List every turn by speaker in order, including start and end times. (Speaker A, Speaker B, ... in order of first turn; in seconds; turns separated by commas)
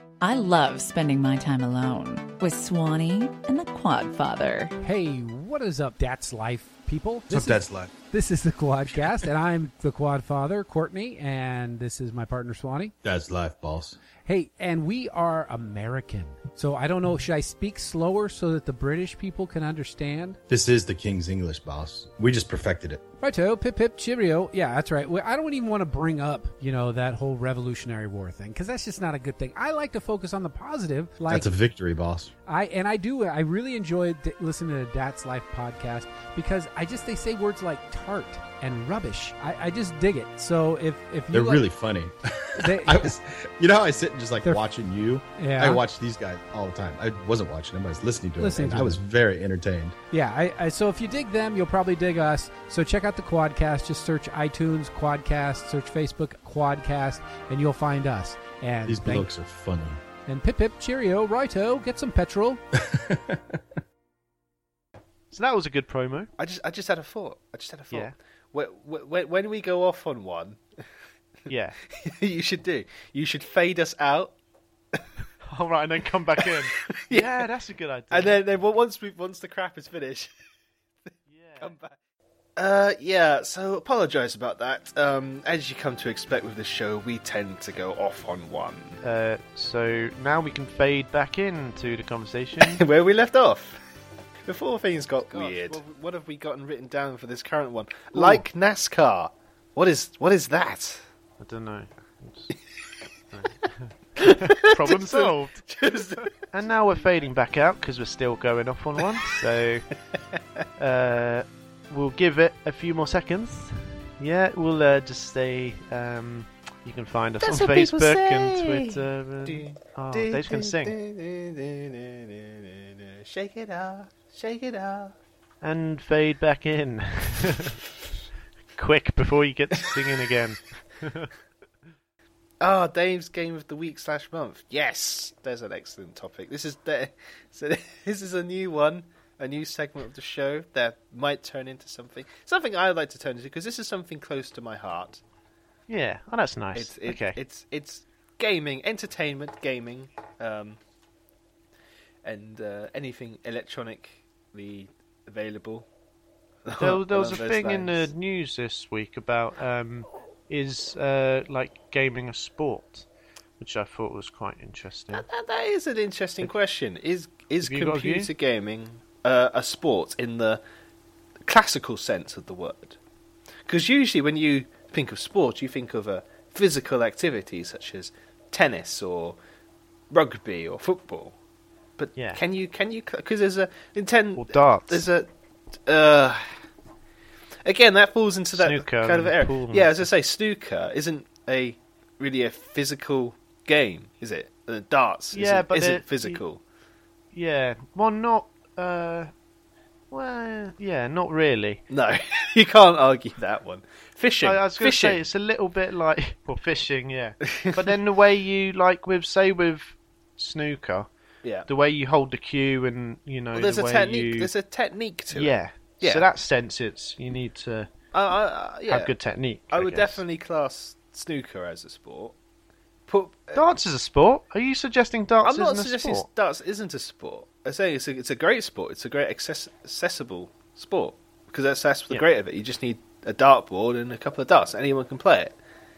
Speaker A: 0.2-4.8, Speaker B: 4.8-12.9, Speaker C: 7.3-7.9, Speaker C: 13.0-14.0, Speaker B: 14.2-20.4, Speaker C: 20.5-23.1, Speaker B: 23.2-31.5, Speaker C: 31.3-32.3, Speaker B: 32.5-41.7, Speaker C: 41.3-50.0, Speaker B: 42.6-43.1, Speaker B: 45.4-45.8, Speaker B: 48.4-49.0, Speaker B: 50.1-59.3, Speaker C: 58.9-60.0, Speaker B: 60.3-62.6, Speaker C: 62.8-63.5, Speaker D: 65.3-66.3, Speaker E: 66.4-70.6, Speaker D: 71.5-71.8, Speaker E: 71.9-74.4, Speaker D: 75.5-78.4, Speaker E: 76.4-77.5, Speaker E: 78.1-80.3, Speaker D: 81.3-81.8, Speaker E: 81.6-82.0, Speaker E: 82.6-89.0, Speaker D: 89.0-92.8, Speaker E: 92.6-93.8, Speaker E: 94.4-101.1, Speaker D: 95.3-95.8, Speaker D: 98.1-98.4, Speaker D: 101.4-102.5, Speaker D: 103.3-105.7, Speaker E: 104.2-106.3, Speaker D: 106.2-109.9, Speaker E: 110.2-110.6, Speaker D: 110.8-121.0, Speaker E: 117.4-125.2, Speaker D: 125.6-127.8, Speaker D: 128.8-131.3, Speaker E: 132.6-145.2, Speaker D: 145.9-147.4, Speaker E: 146.7-150.8, Speaker E: 152.2-155.9, Speaker E: 156.7-158.1, Speaker D: 156.8-163.1, Speaker D: 163.6-165.2, Speaker E: 165.1-170.6, Speaker D: 167.6-168.3, Speaker E: 171.4-173.0, Speaker E: 173.7-179.4, Speaker E: 180.1-181.4, Speaker E: 182.0-185.3, Speaker D: 182.2-182.4, Speaker D: 184.4-185.0, Speaker E: 185.8-186.6, Speaker E: 187.6-196.6, Speaker D: 188.5-190.1, Speaker D: 195.3-196.4, Speaker D: 197.3-199.3, Speaker D: 200.1-201.8, Speaker E: 201.9-205.2, Speaker D: 204.4-211.1, Speaker E: 207.5-207.9, Speaker E: 211.4-211.7, Speaker D: 211.7-214.5, Speaker E: 213.5-216.3, Speaker D: 215.3-217.9, Speaker E: 218.1-219.1, Speaker D: 218.9-220.2, Speaker E: 219.7-222.4, Speaker E: 223.1-223.6, Speaker D: 223.5-226.3, Speaker E: 225.4-235.6